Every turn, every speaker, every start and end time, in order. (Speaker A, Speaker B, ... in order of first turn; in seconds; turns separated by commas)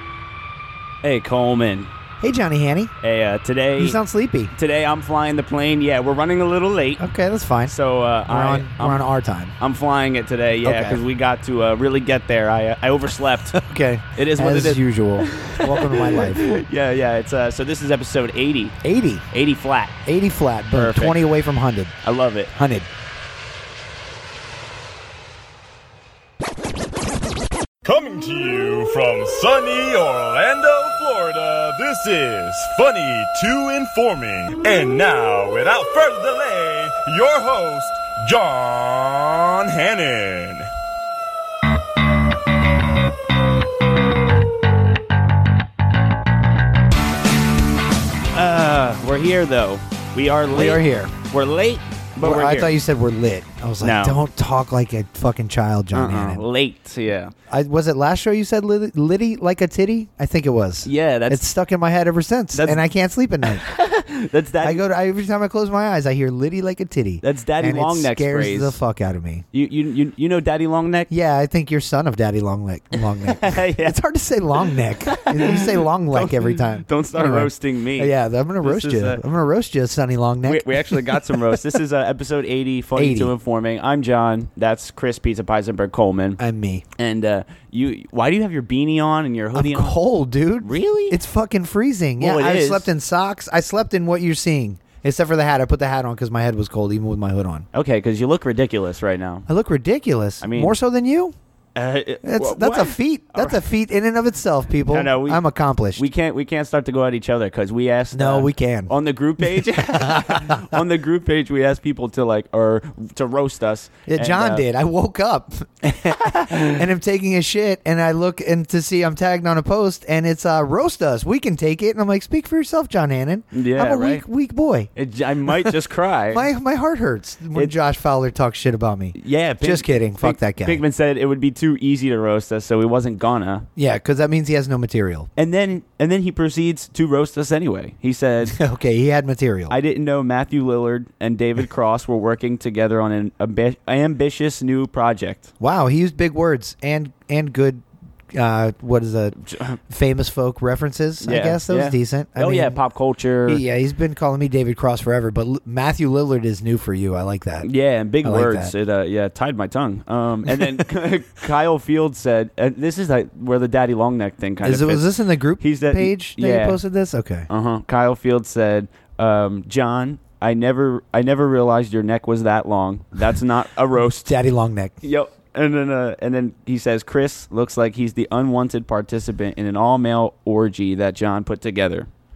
Speaker A: 1.0-1.9, Speaker B: 2.2-2.9, Speaker A: 3.0-4.0, Speaker B: 3.8-4.5, Speaker A: 4.5-7.1, Speaker B: 7.0-7.7, Speaker A: 7.7-9.1, Speaker B: 8.3-9.6, Speaker A: 9.6-13.6, Speaker B: 10.6-11.0, Speaker B: 13.5-16.4, Speaker A: 14.2-18.8, Speaker B: 18.8-19.2, Speaker A: 19.3-19.9, Speaker B: 20.1-21.9, Speaker A: 20.7-21.2, Speaker A: 22.0-22.5, Speaker B: 22.5-22.9, Speaker C: 27.8-40.7, Speaker A: 48.3-52.8, Speaker B: 50.5-51.1, Speaker B: 52.2-56.4, Speaker A: 53.8-54.2, Speaker A: 55.9-57.3, Speaker B: 57.5-63.7, Speaker A: 60.9-61.4, Speaker A: 62.5-62.8, Speaker A: 63.5-64.8, Speaker B: 64.6-69.5, Speaker A: 67.2-68.8, Speaker A: 69.5-71.1, Speaker B: 71.1-81.8, Speaker A: 73.2-74.0, Speaker A: 74.7-79.2, Speaker A: 80.5-86.4, Speaker B: 83.0-83.3, Speaker B: 86.4-86.8, Speaker A: 87.0-90.0, Speaker B: 89.5-97.7, Speaker A: 90.6-91.2, Speaker A: 92.2-92.9, Speaker A: 97.7-99.5, Speaker B: 99.5-101.3, Speaker A: 100.4-100.8, Speaker A: 101.8-103.6, Speaker B: 102.2-106.0, Speaker A: 104.9-105.4, Speaker A: 106.0-114.6, Speaker B: 108.1-110.8, Speaker B: 114.1-124.9, Speaker A: 123.5-124.2, Speaker A: 125.0-126.5, Speaker B: 125.5-125.8, Speaker B: 126.3-130.8, Speaker A: 129.2-133.7, Speaker B: 133.8-135.3, Speaker A: 135.4-138.6, Speaker B: 138.5-139.8, Speaker A: 139.7-145.5, Speaker B: 145.6-149.4, Speaker A: 149.4-149.8, Speaker B: 149.9-152.8, Speaker A: 151.2-153.6, Speaker B: 153.5-157.7, Speaker A: 157.6-165.1, Speaker B: 158.2-158.7, Speaker B: 160.5-160.8, Speaker B: 164.6-167.5, Speaker A: 165.6-166.8, Speaker A: 167.5-174.3, Speaker B: 174.3-175.0, Speaker A: 175.0-182.1